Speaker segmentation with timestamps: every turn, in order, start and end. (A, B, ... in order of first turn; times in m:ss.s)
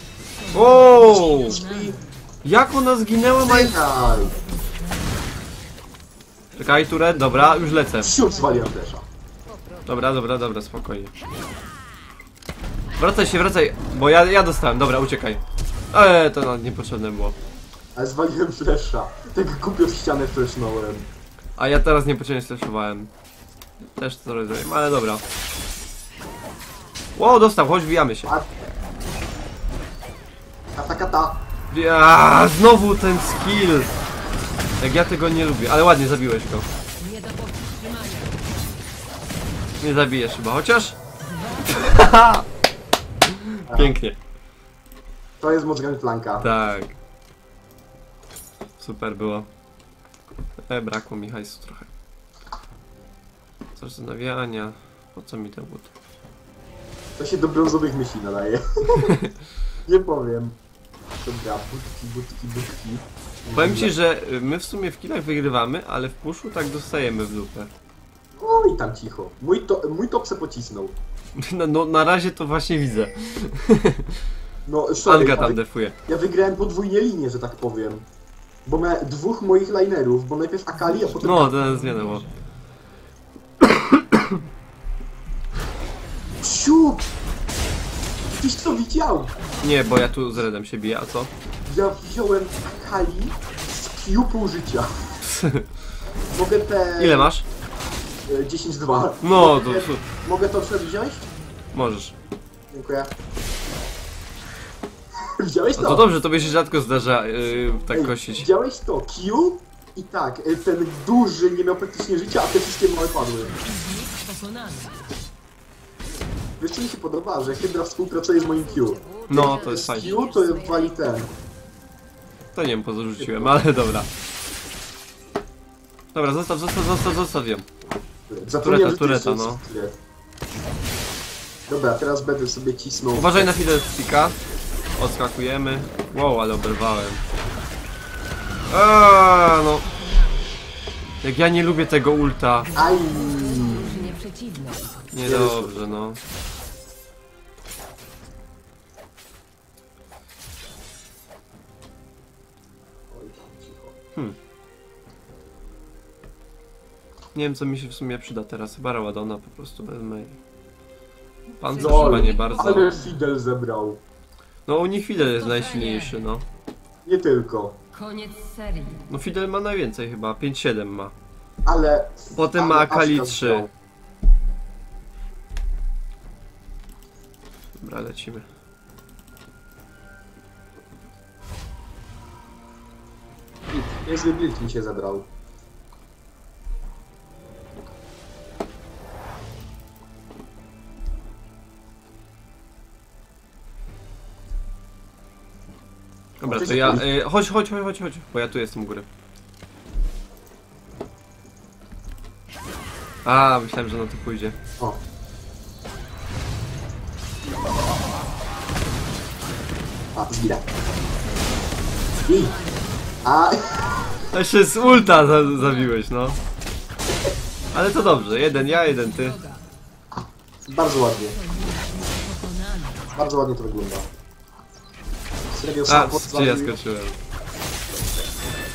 0:00.3-0:02.0 A
0:00.5-0:01.6 B
0:01.0-0:02.0 C
0:02.4-0:03.7 B
0:03.4-0:04.4 C
0:03.8-0:05.4 A
0:06.6-0:08.1 B
0:07.0-0:08.8 A
0:08.0-0:09.0 C
0:09.4-0:10.3 A
0:09.8-0:11.1 B
0:13.0-0:15.4 B
0:15.9-0:17.4 B
0:17.9-0:21.1 C
0:21.6-0:23.1 B
0:23.8-0:25.2 B
0:27.2-0:28.3 B
0:28.2-0:28.7 C
0:30.7-0:31.5 C
0:31.7-0:33.9 B
0:33.8-0:34.8 A
0:34.8-0:36.6 B
0:37.0-0:38.6 A
0:39.8-0:41.0 B
0:41.2-0:42.1 A
0:41.7-0:42.4 B
0:43.3-0:44.2 B
0:43.7-0:44.0 C
0:45.4-0:46.5 C
0:46.4-0:46.9 B
0:48.8-0:49.5 B
0:50.6-0:51.9 B
0:53.8-0:55.9 B
0:57.2-0:59.2 C
0:59.0-0:59.3 B
0:59.8-1:00.6 C
1:01.2-1:03.9 C
1:03.5-1:07.7 B
1:08.4-1:11.0 C
1:11.4-1:14.2 B
1:14.6-1:18.0 C
1:15.0-1:16.0 B
1:18.6-1:21.6 C
1:20.8-1:22.3 A
1:21.2-1:22.2 B
1:23.6-1:24.4 B
1:26.4-1:27.1 C
1:28.3-1:29.3 C
1:29.4-1:30.3 A
1:29.6-1:31.3 B
1:31.6-1:34.9 C
1:35.2-1:35.7 B
1:36.3-1:37.3 C
1:37.0-1:37.4 B
1:38.3-1:41.3 C
1:39.2-1:40.0 B
1:41.7-1:42.1 B
1:42.7-1:43.1 C
1:45.2-1:46.1 C
1:45.8-1:48.5 B
1:46.0-1:48.5 A
1:47.9-1:53.6 C
1:53.3-1:55.0 A
1:56.6-2:01.3 C
1:58.3-2:01.3 A
1:59.3-2:00.1 B
2:02.5-2:04.1 B
2:03.2-2:03.6 C
2:06.1-2:07.6 B
2:08.3-2:10.0 C
2:08.6-2:09.6 B
2:11.7-2:13.6 C
2:13.1-2:14.4 B
2:13.7-2:14.0 A
2:14.9-2:17.2 B
2:18.7-2:19.8 B
2:19.6-2:20.5 A
2:21.2-2:22.7 B
2:22.6-2:25.1 A
2:22.7-2:24.1 C
2:25.1-2:26.2 B
2:25.2-2:26.0 C
2:33.1-2:34.0 C
2:37.3-2:40.4 B
2:41.6-2:43.1 A
2:41.6-2:43.0 B
2:41.8-2:44.0 C
2:44.7-2:46.4 B
2:45.2-2:46.2 A
2:47.0-2:47.8 C
2:47.9-2:49.1 A
2:49.1-2:51.1 B
2:51.6-2:53.7 C
2:52.4-2:53.7 B
2:57.8-2:58.5 B
3:03.7-3:05.3 C
3:16.4-3:19.0 B
3:16.4-3:17.0 C
3:23.2-3:24.5 B
3:30.1-3:30.6 C
3:32.1-3:33.2 A
3:32.2-3:32.6 C
3:33.2-3:34.0 C
3:34.3-3:36.4 B
3:34.8-3:36.0 A
3:37.7-3:39.4 B
3:37.8-3:39.6 A
3:40.7-3:41.4 C
3:41.2-3:43.1 A
3:43.2-3:44.1 C
3:45.5-3:46.8 C
3:45.9-3:47.2 B